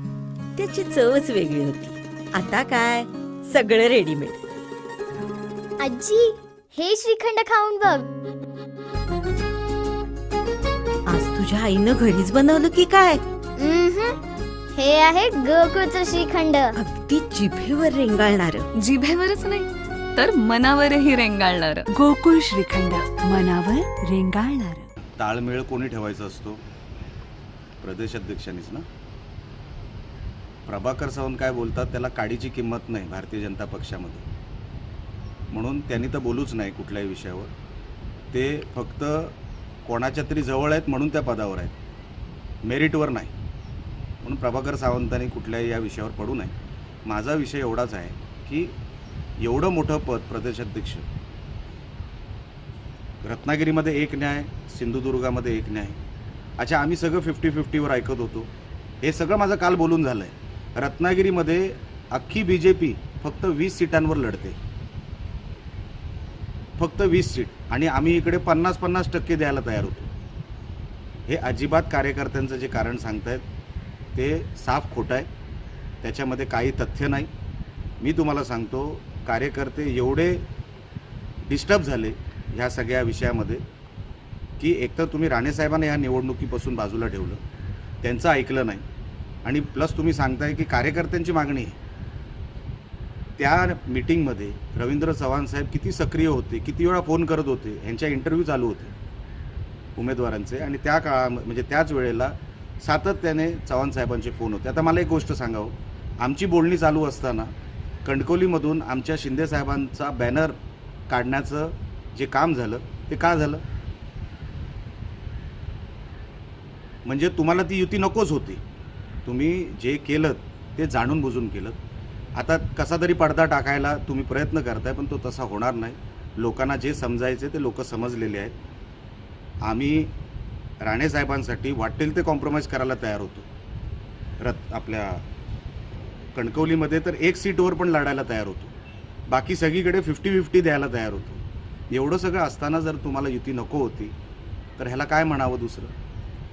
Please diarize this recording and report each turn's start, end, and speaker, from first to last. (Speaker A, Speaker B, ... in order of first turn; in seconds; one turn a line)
Speaker A: 0.8-1.7
Speaker A: 2.5-3.0
Speaker A: 3.6-4.1
Speaker B: 5.8-8.1
Speaker A: 11.3-12.6
Speaker B: 13.6-14.2
Speaker B: 14.8-16.7
Speaker C: 18.8-21.9
Speaker D: 21.9-24.9
Speaker E: 25.2-26.6
Speaker E: 27.8-28.8
Speaker E: 30.6-34.2
Speaker E: 35.5-37.5
Speaker E: 38.3-41.7
Speaker E: 42.6-43.3
Speaker E: 44.2-46.5
Speaker E: 47.0-48.7
Speaker E: 49.4-51.0
Speaker E: 53.2-56.0
Speaker E: 56.6-58.5
Speaker E: 59.0-64.6
Speaker E: 66.8-70.1
Speaker E: 71.3-73.4
Speaker E: 74.1-75.3
Speaker E: 76.0-77.3
Speaker E: 78.0-80.4
Speaker E: 81.5-83.6
Speaker E: 84.6-87.4
Speaker E: 88.0-88.8
Speaker E: 89.4-91.8
Speaker E: 93.4-98.9
Speaker E: 100.0-107.5
Speaker E: 108.0-113.6
Speaker E: 117.0-118.6
Speaker E: 119.2-121.8
Speaker E: 122.3-128.5
Speaker E: 129.6-130.1
Speaker E: 130.8-133.5
Speaker E: 134.4-135.2
Speaker E: 135.9-138.7
Speaker E: 139.3-144.1
Speaker E: 144.8-145.9